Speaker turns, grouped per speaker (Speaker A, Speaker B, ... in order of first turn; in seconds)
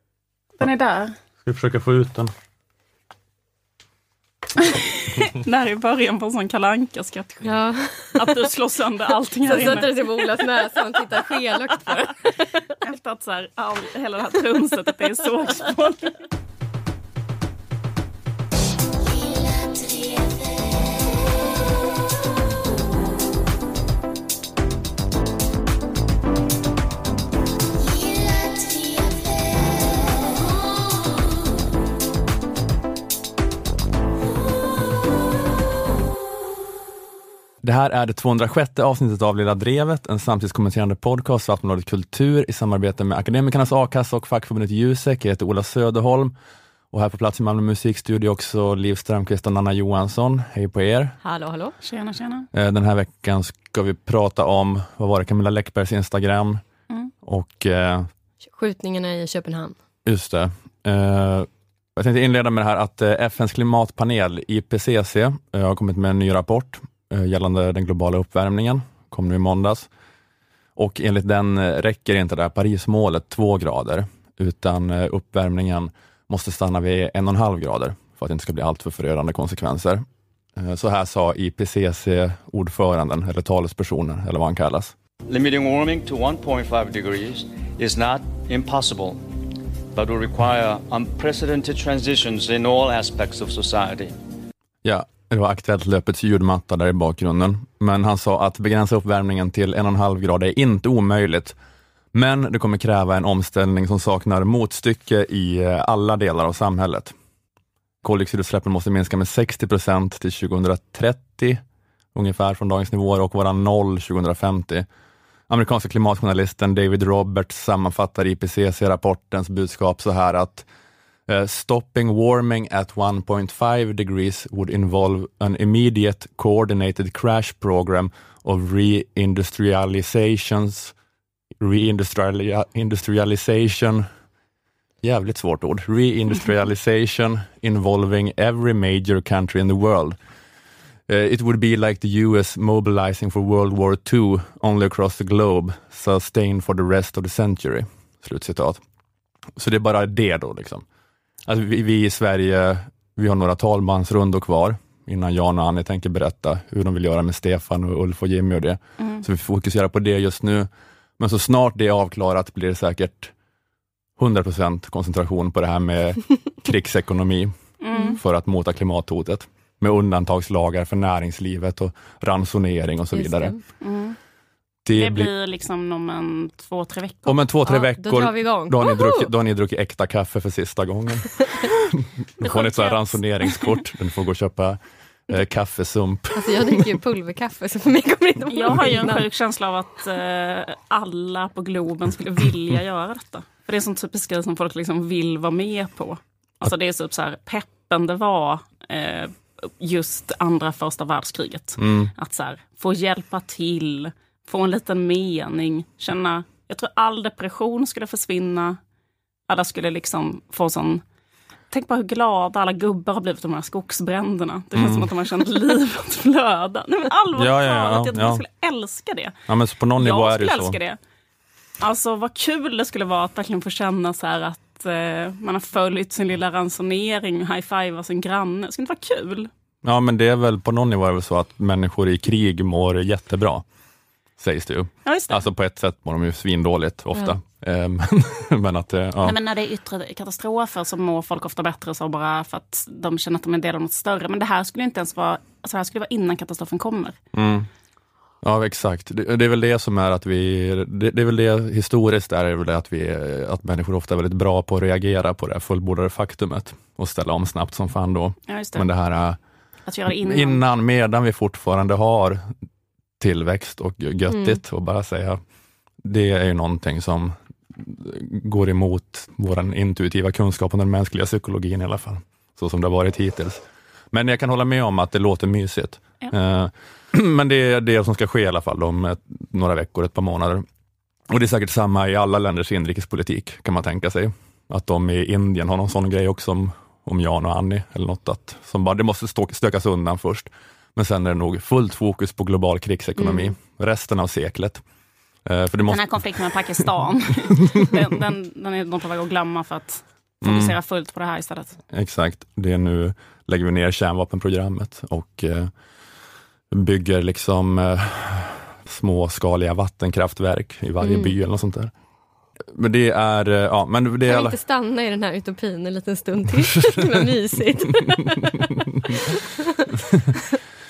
Speaker A: 0.6-1.1, 4.6-7.5, 8.1-10.4, 12.8-16.1, 51.8-52.5, 167.8-168.2, 173.8-174.2, 174.9-177.4, 182.4-183.7, 188.5-208.8, 209.5-211.0, 211.7-219.3, 220.0-221.0, 221.8-229.5, 235.0-235.4, 239.2-247.2, 258.5-258.9, 259.9-260.6, 295.9-301.8
Speaker B: 1.4-2.3, 37.6-46.3, 46.9-51.1, 52.5-56.6, 57.2-58.1, 60.0-69.9, 70.8-80.0, 80.5-84.9, 94.8-101.5, 102.1-107.1, 108.0-111.6, 112.1-114.8, 115.5-120.7, 121.3-130.9, 131.6-134.1, 135.0-140.2, 141.1-148.8, 149.6-150.8, 151.4-163.3, 164.2-167.6, 168.1-173.5, 174.8-175.3, 177.2-184.8, 185.3-186.9, 201.8-202.1, 214.7-215.1, 217.3-218.4, 219.5-220.8, 229.8-233.6, 234.4-239.3, 247.3-247.7, 248.4-259.4, 260.1-262.4, 263.2-265.4, 266.0-280.6, 281.3-294.8, 295.4-296.2, 300.4-300.8, 301.9-305.7, 306.7-311.9, 312.7-314.6
Speaker C: 7.4-8.3, 9.4-12.7, 51.2-51.7, 58.4-59.8, 173.1-173.6, 177.7-179.3, 186.3-189.2, 264.3-264.6, 293.2-293.5, 311.0-311.3, 314.3-319.7
Speaker D: 85.3-89.2, 89.9-94.2